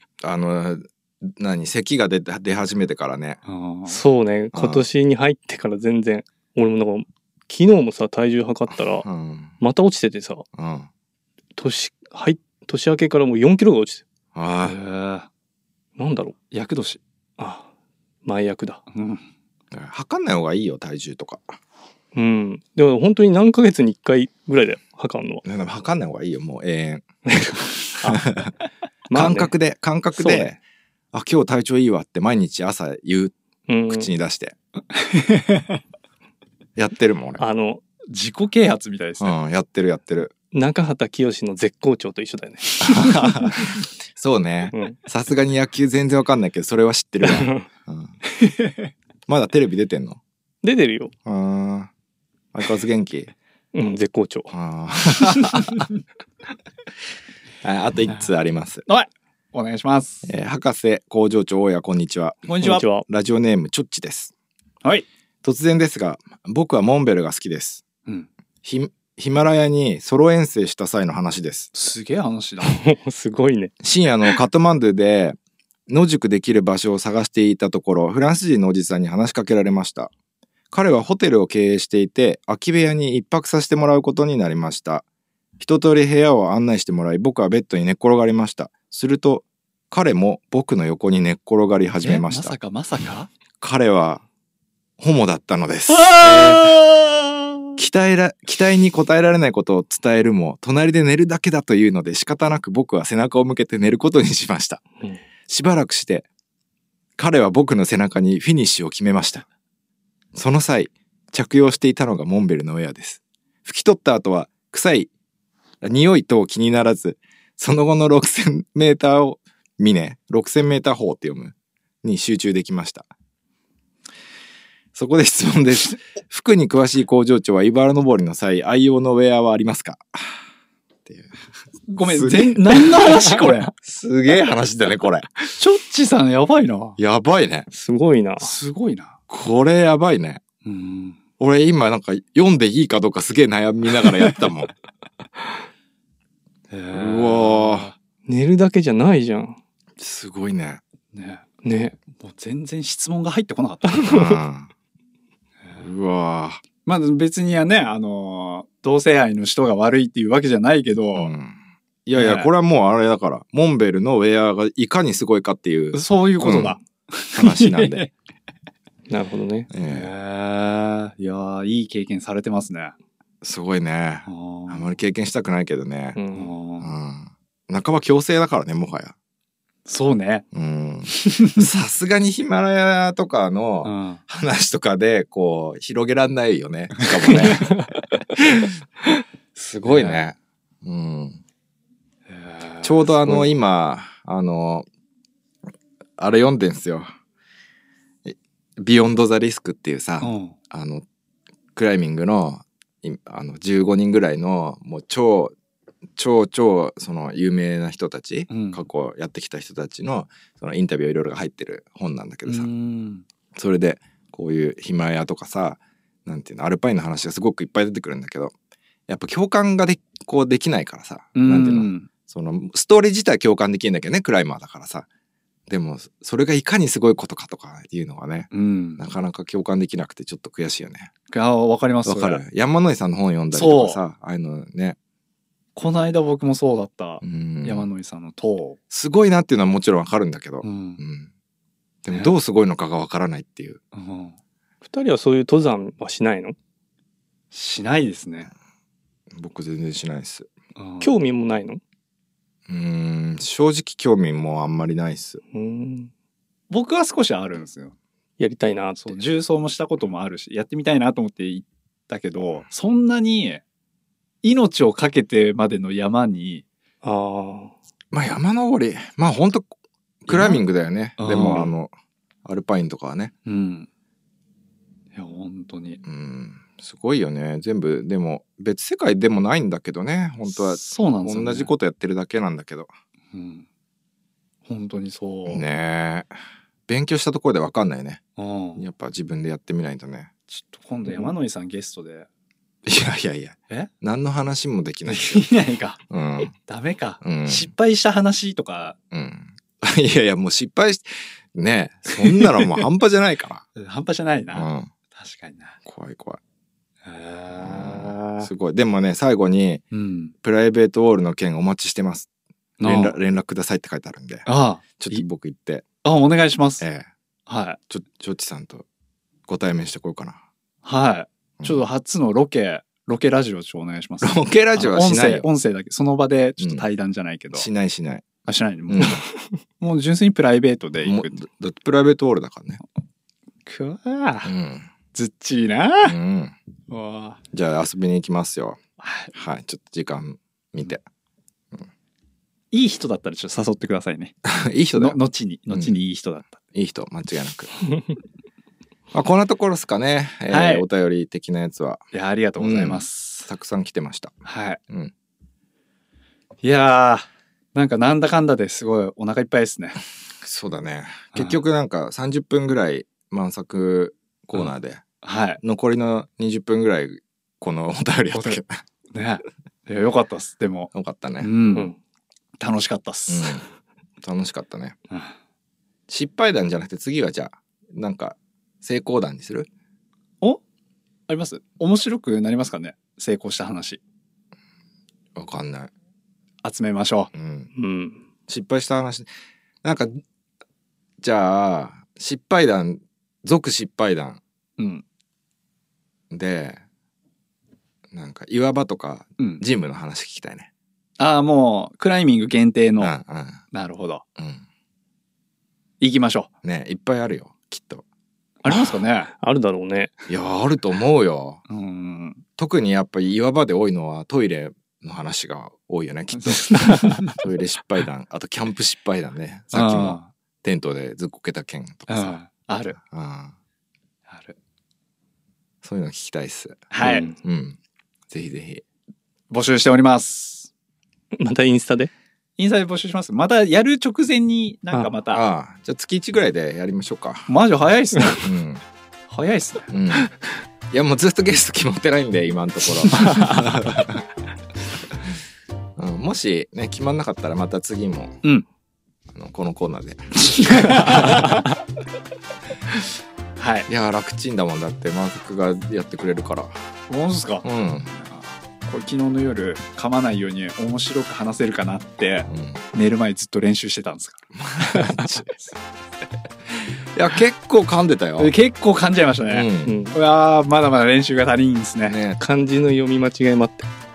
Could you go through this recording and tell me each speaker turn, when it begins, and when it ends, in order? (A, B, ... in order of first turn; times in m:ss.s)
0:00.2-0:03.4 A
0:03.5-0:04.0 B
0:03.9-0:09.1 C
0:04.5-0:04.9 A
0:09.0-0:09.6 A
0:09.6-0:10.4 C
0:10.5-0:10.9 A
0:11.6-0:14.0 C
0:14.4-0:14.8 A
0:14.6-0:15.3 B
0:16.0-0:16.4 C
0:16.5-0:17.0 B
0:17.4-0:17.7 C
0:18.2-0:18.8 C
0:18.9-0:19.2 B
0:19.7-0:21.6 A
0:22.2-0:25.4 C
0:25.4-0:28.5 A
0:28.0-0:28.2 C
0:29.1-0:29.5 C
0:29.1-0:30.6 A
0:30.2-0:30.5 C
0:31.1-0:33.3 A
0:33.7-0:34.1 C
0:33.9-0:34.6 A
0:34.9-0:35.8 B
0:36.8-0:37.4 A
0:37.4-0:37.8 C
0:38.1-0:39.4 B
0:39.2-0:40.3 A
0:40.5-0:43.5 C
0:42.8-0:48.1 A
0:44.7-0:45.0 C
0:47.2-0:47.6 C
0:48.3-0:48.9 B
0:49.3-0:50.2 A
0:50.6-0:51.1 C
0:51.3-0:51.9 A
0:52.5-0:53.3 A
0:53.7-0:54.5 C
0:54.5-0:55.9 A
0:57.6-0:58.8 A
0:58.9-1:00.3 B
1:00.2-1:02.5 A
1:02.5-1:02.8 B
1:02.6-1:03.0 C
1:03.1-1:04.3 A
1:05.4-1:07.8 A
1:08.6-1:11.7 A
1:11.7-1:12.8 B
1:12.6-1:13.7 C
1:13.8-1:15.4 A
1:15.9-1:20.1 A
1:20.7-1:25.0 A
1:25.6-1:32.6 A
1:32.0-1:33.3 B
1:33.6-1:34.2 A
1:35.0-1:36.8 A
1:35.9-1:37.4 B
1:37.8-1:44.8 A
1:45.5-1:46.3 A
1:47.2-1:49.5 A
1:50.4-1:55.1 A
1:55.8-2:03.1 A
2:05.0-2:10.4 A
2:11.1-2:11.3 A
2:11.9-2:13.7 B
2:12.0-2:15.3 A
2:15.6-2:17.0 B
2:17.0-2:17.7 A
2:17.7-2:18.5 C
2:18.4-2:19.2 B
2:19.3-2:20.4 A
2:20.6-2:21.2 B
2:21.4-2:24.7 A
2:26.7-2:28.0 B
2:26.9-2:27.9 A
2:28.3-2:29.6 C
2:30.0-2:30.8 A
2:31.1-2:31.5 B
2:31.6-2:32.0 C
2:32.1-2:34.0 B
2:33.9-2:34.4 C
2:34.0-2:34.7 A
2:35.8-2:36.6 A
2:36.8-2:41.3 B
2:41.2-2:46.8 A
2:42.2-2:42.5 B
2:45.9-2:48.1 B
2:47.3-2:48.1 A
2:49.1-2:49.7 C
2:49.7-2:50.1 A
2:49.9-2:53.0 B
2:53.4-2:56.2 A
2:54.3-2:54.9 B
2:56.2-2:56.5 C
2:56.3-2:56.9 B
2:56.8-2:59.2 A
2:59.9-3:00.4 B
3:00.5-3:08.8 A
3:01.1-3:01.6 B
3:03.8-3:04.2 B
3:07.0-3:07.7 B
3:09.6-3:11.4 A
3:09.8-3:10.2 B
3:12.3-3:13.6 B
3:12.8-3:14.9 A
3:16.2-3:17.1 A
3:18.2-3:21.0 A
3:20.2-3:20.6 B
3:21.8-3:25.6 A
3:26.2-3:32.7 A
3:28.5-3:28.8 B
3:32.5-3:33.2 B
3:33.6-3:38.5 A
3:39.1-3:45.1 A
3:41.4-3:42.1 B
3:45.7-3:51.1 A
3:48.5-3:49.0 B
3:51.3-3:52.4 B
3:52.0-3:55.0 A
3:53.5-3:54.0 B
3:55.8-3:58.8 B
3:57.2-3:57.9 A
3:58.9-4:01.3 A
4:00.6-4:01.0 B
4:02.0-4:03.8 A
4:03.9-4:04.4 B
4:04.8-4:06.6 C
4:07.5-4:08.5 B
4:09.3-4:10.5 A
4:10.8-4:11.2 B
4:11.0-4:11.8 C
4:12.7-4:15.4 A
4:15.5-4:16.1 C
4:16.7-4:18.0 B
4:18.4-4:19.2 C
4:19.0-4:23.6 B
4:24.4-4:26.7 B
4:27.0-4:27.7 C
4:28.1-4:29.7 A
4:30.2-4:31.9 A
4:30.3-4:30.6 B
4:31.2-4:31.7 B
4:32.4-4:33.3 A
4:33.4-4:33.9 B
4:35.1-4:36.0 B
4:36.0-4:42.9 A
4:40.5-4:41.7 B
4:43.3-4:43.7 B
4:44.6-4:45.7 B
4:45.5-4:46.3 A
4:46.9-4:48.2 A
4:48.4-4:48.8 B
4:48.8-4:50.3 A
4:50.5-4:52.3 B
4:52.9-4:55.5 A
4:55.1-4:59.0 B
4:56.1-4:56.6 A
4:57.2-4:57.7 A
4:59.1-5:03.6 A
5:02.1-5:02.8 B
5:03.8-5:05.8 B
5:04.5-5:04.9 A
5:05.8-5:06.4 A
5:07.0-5:08.5 B
5:07.5-5:09.8 A
5:09.9-5:10.3 B
5:10.4-5:12.3 A
5:12.8-5:13.2 B
5:12.8-5:15.8 A
5:14.5-5:15.2 B
5:16.0-5:16.8 B
5:16.8-5:17.1 A
5:17.5-5:17.8 B
5:17.9-5:18.9 A
5:19.5-5:20.4 A
5:20.8-5:27.7 B
5:21.6-5:21.8 A
5:24.2-5:25.5 A
5:26.6-5:26.8 A
5:27.6-5:28.3 A
5:28.4-5:29.2 B
5:28.9-5:29.2 A
5:29.8-5:31.4 B
5:31.0-5:32.8 A
5:33.7-5:34.5 B
5:34.4-5:34.9 A
5:35.1-5:36.2 B
5:36.0-5:36.6 A
5:36.9-5:37.4 B
5:37.5-5:38.8 A
5:39.0-5:39.3 B
5:39.3-5:41.0 A
5:42.7-5:44.3 B
5:44.4-5:45.2 A
5:45.0-5:46.6 B
5:45.7-5:46.0 A
5:46.7-5:47.7 A
5:49.1-5:52.0 A
5:50.5-5:50.9 B
5:52.1-5:53.5 B
5:52.6-5:54.4 A
5:54.4-5:54.8 B
5:56.6-6:00.0 B
6:00.4-6:05.0 A
6:01.3-6:01.6 B
6:05.2-6:05.6 B
6:05.6-6:08.8 A
6:09.1-6:11.9 B
6:10.9-6:11.5 A
6:12.6-6:13.6 B
6:13.3-6:13.6 A
6:14.2-6:15.0 A
6:16.1-6:19.7 A
6:21.3-6:24.0 B
6:25.4-6:25.9 A
6:26.6-6:27.3 B
6:27.3-6:27.7 A
6:27.8-6:28.2 C
6:28.5-6:29.3 A
6:29.8-6:30.2 A
6:31.2-6:34.4 A
6:34.8-6:35.0 B
6:36.3-6:36.8 A
6:38.1-6:40.7 A
6:39.4-6:39.6 B
6:41.2-6:43.1 B
6:43.0-6:43.6 A
6:43.7-6:44.2 B
6:44.4-6:44.6 A
6:46.0-6:46.5 B
6:46.6-6:48.0 A
6:48.6-6:49.3 B
6:49.3-6:50.1 C
6:50.3-6:51.6 A
6:51.7-6:52.4 B
6:52.6-7:02.4 A
6:56.4-6:57.3 B
6:59.7-7:00.3 B
7:02.1-7:03.0 B
7:03.0-7:03.6 A
7:04.3-7:04.6 B
7:05.8-7:07.8 A
7:06.9-7:07.3 B
7:07.0-7:07.4 C
7:08.3-7:08.8 A
7:09.5-7:10.7 B
7:11.3-7:12.1 C
7:12.6-7:15.4 B
7:15.3-7:17.5 A
7:17.5-7:18.5 B
7:18.4-7:18.8 A
7:19.3-7:19.9 B
7:19.9-7:20.3 A
7:20.9-7:24.3 A
7:23.1-7:23.5 B
7:26.0-7:28.4 A
7:29.3-7:31.4 A
7:30.4-7:31.7 B
7:33.6-7:33.9 B
7:33.9-7:36.7 A
7:37.1-7:44.4 B
7:37.6-7:38.1 A
7:42.5-7:42.8 A
7:44.5-7:45.6 A
7:47.1-7:48.5 A
7:48.4-7:52.2 B
7:49.5-7:50.0 A
7:49.8-7:50.2 C
7:52.1-7:52.4 A
7:52.4-7:53.9 C